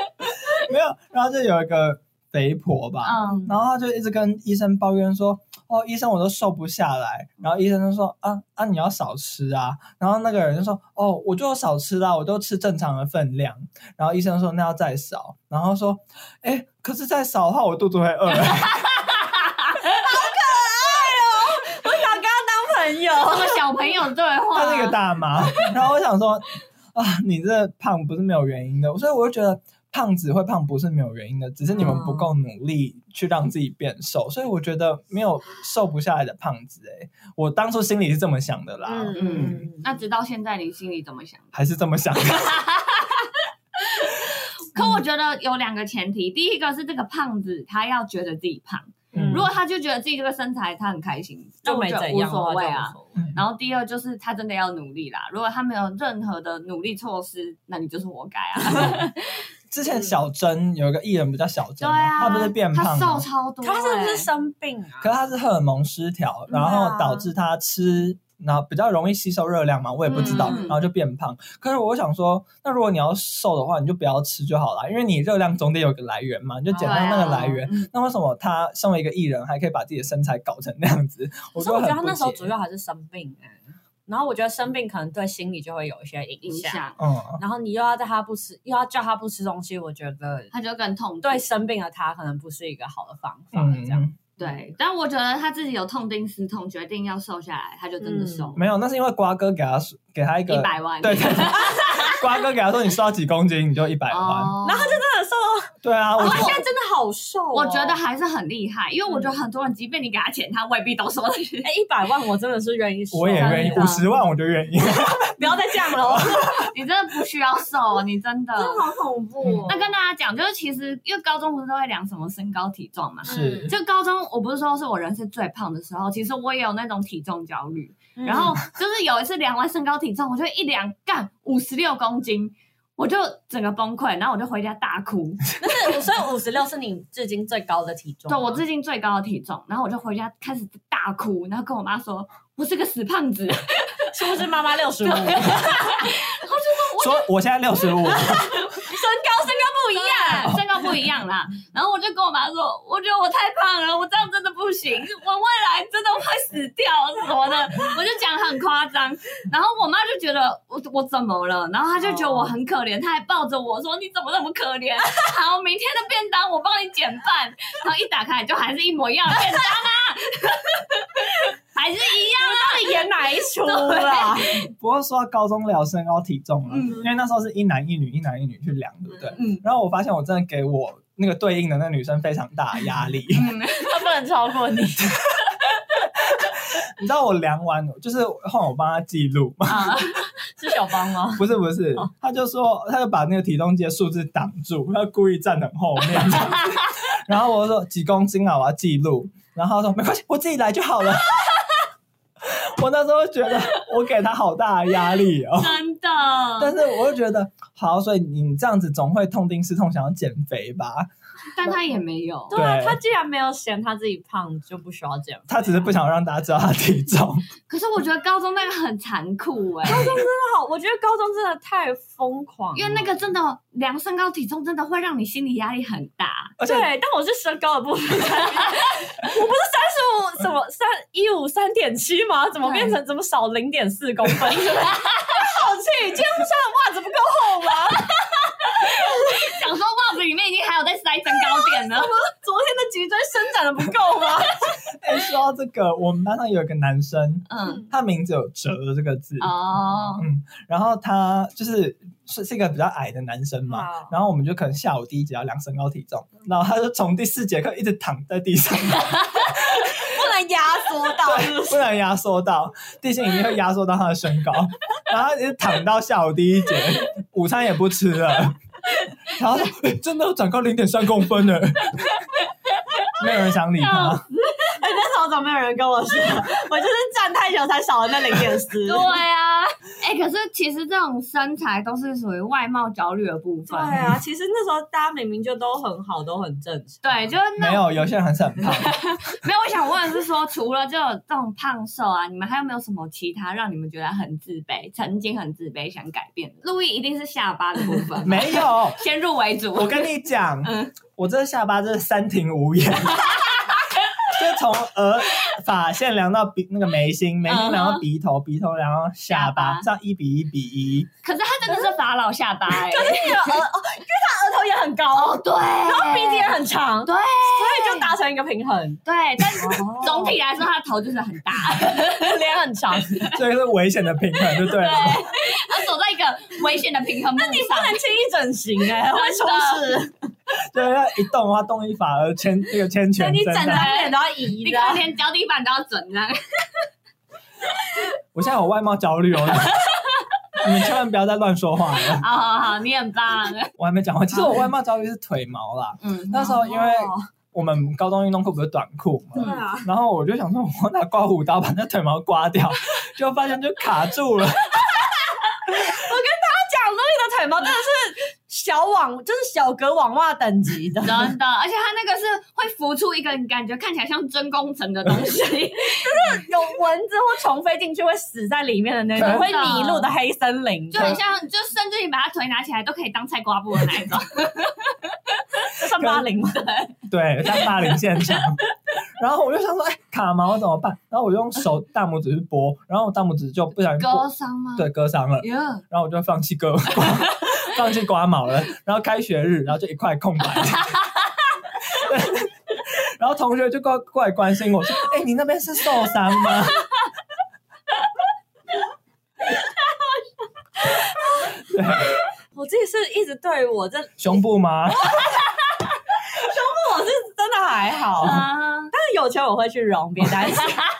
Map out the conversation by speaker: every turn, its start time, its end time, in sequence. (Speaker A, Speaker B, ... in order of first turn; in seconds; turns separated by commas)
Speaker A: 0.5-18.8, Speaker B: 3.0-3.5, Speaker C: 3.2-3.5, Speaker B: 18.5-19.8, Speaker C: 20.0-23.7, Speaker B: 23.2-25.0, Speaker A: 24.5-39.6, Speaker C: 31.7-32.3, Speaker C: 38.9-39.9, Speaker B: 39.1-41.5, Speaker A: 41.5-42.6, Speaker B: 42.3-59.4, Speaker A: 49.1-49.5, Speaker C: 49.1-49.5, Speaker C: 51.6-53.2, Speaker A: 59.7-63.3, Speaker B: 61.8-64.3, Speaker C: 63.6-65.1, Speaker A: 65.0-82.5, Speaker C: 66.5-67.2, Speaker B: 66.5-66.8, Speaker B: 70.1-70.8, Speaker C: 70.1-70.7, Speaker C: 76.7-77.5, Speaker B: 76.8-77.9, Speaker C: 81.6-86.8, Speaker B: 86.4-87.0, Speaker A: 87.0-87.4, Speaker C: 87.4-90.5, Speaker B: 90.5-91.4, Speaker C: 91.2-94.1, Speaker A: 93.5-94.2, Speaker B: 94.4-98.6, Speaker C: 98.0-98.5, Speaker A: 98.5-104.5, Speaker B: 100.5-102.2, Speaker B: 104.1-105.0, Speaker C: 104.6-108.0, Speaker A: 105.8-106.6, Speaker B: 106.2-106.6, Speaker B: 107.5-111.7, Speaker C: 109.1-109.4, Speaker C: 111.6-113.9, Speaker A: 113.1-116.5, Speaker B: 113.3-114.0, Speaker C: 115.2-116.7, Speaker B: 116.7-118.8, Speaker C: 118.6-119.8, Speaker A: 119.4-119.7, Speaker B: 119.7-135.5, Speaker C: 123.2-123.7, Speaker A: 123.2-123.7, Speaker C: 128.2-128.6, Speaker C: 135.6-138.6, Speaker B: 138.3-144.1, Speaker C: 144.1-145.9, Speaker B: 145.0-147.3, Speaker A: 147.0-148.7, Speaker C: 148.2-150.6, Speaker B: 149.9-174.7, Speaker C: 162.0-162.5, Speaker C: 172.3-174.6, Speaker A: 174.7-183.5, Speaker B: 176.7-177.0, Speaker C: 179.3-179.6, Speaker B: 183.3-184.0, Speaker C: 183.7-185.2, Speaker A: 186.4-190.1, Speaker B: 189.7-190.2, Speaker C: 190.6-192.1, Speaker A: 191.3-201.4, Speaker B: 196.5-196.8, Speaker A: 202.4-205.8, Speaker B: 205.6-206.7, Speaker A: 206.6-211.1, Speaker B: 211.5-212.6, Speaker A: 212.5-213.0, Speaker C: 212.5-215.8, Speaker A: 215.5-217.5, Speaker B: 217.7-220.2, Speaker C: 219.8-223.0, Speaker B: 222.7-226.5, Speaker A: 226.6-226.8, Speaker C: 226.6-238.1, Speaker B: 232.6-232.9, Speaker B: 234.7-235.4, Speaker B: 238.6-242.1, Speaker C: 238.8-239.5, Speaker C: 241.4-244.6, Speaker A: 244.8-259.9, Speaker B: 247.5-247.8, Speaker C: 247.6-247.9, Speaker B: 249.4-250.2, Speaker C: 253.7-254.1, Speaker C: 259.9-261.9, Speaker A: 261.2-268.6, Speaker A: 269.3-272.1, Speaker A: 273.1-274.2, Speaker B: 273.8-274.2, Speaker C: 274.4-279.1, Speaker B: 278.8-284.0, Speaker C: 283.7-287.0, Speaker B: 287.0-287.9, Speaker A: 287.6-288.9, Speaker B: 288.6-300.1, Speaker A: 298.2-299.0, Speaker A: 299.8-303.6, Speaker B: 300.6-300.9, Speaker B: 303.3-303.8, Speaker A: 304.3-311.1, Speaker B: 307.4-308.0, Speaker B: 309.3-309.8, Speaker B: 311.2-313.6, Speaker C: 312.7-319.0, Speaker B: 315.4-318.1, Speaker B: 319.0-322.3, Speaker C: 319.6-320.4, Speaker C: 322.1-323.3, Speaker A: 323.3-325.3, Speaker B: 324.6-328.0, Speaker C: 327.3-330.1, Speaker B: 329.1-330.0, Speaker A: 330.7-333.9, Speaker C: 333.1-335.0, Speaker B: 333.6-336.9, Speaker A: 338.3-339.8, Speaker B: 339.5-340.2, Speaker A: 340.6-342.3, Speaker B: 342.2-343.7, Speaker A: 343.8-354.9, Speaker B: 346.0-347.2, Speaker C: 349.4-349.9, Speaker C: 355.7-361.3, Speaker B: 361.0-366.4, Speaker C: 366.0-371.2, Speaker A: 369.1-369.5, Speaker B: 369.1-370.1, Speaker B: 370.9-375.7, Speaker C: 375.6-376.7, Speaker B: 376.5-376.9, Speaker A: 377.1-391.0, Speaker B: 377.5-378.5, Speaker B: 384.0-384.9, Speaker B: 385.4-385.8, Speaker B: 387.0-387.5, Speaker A: 391.9-396.9, Speaker C: 400.8-401.5, Speaker A: 401.5-402.1, Speaker C: 402.5-404.4, Speaker A: 404.2-405.1, Speaker C: 405.0-405.2, Speaker C: 406.3-410.8, Speaker B: 408.2-408.9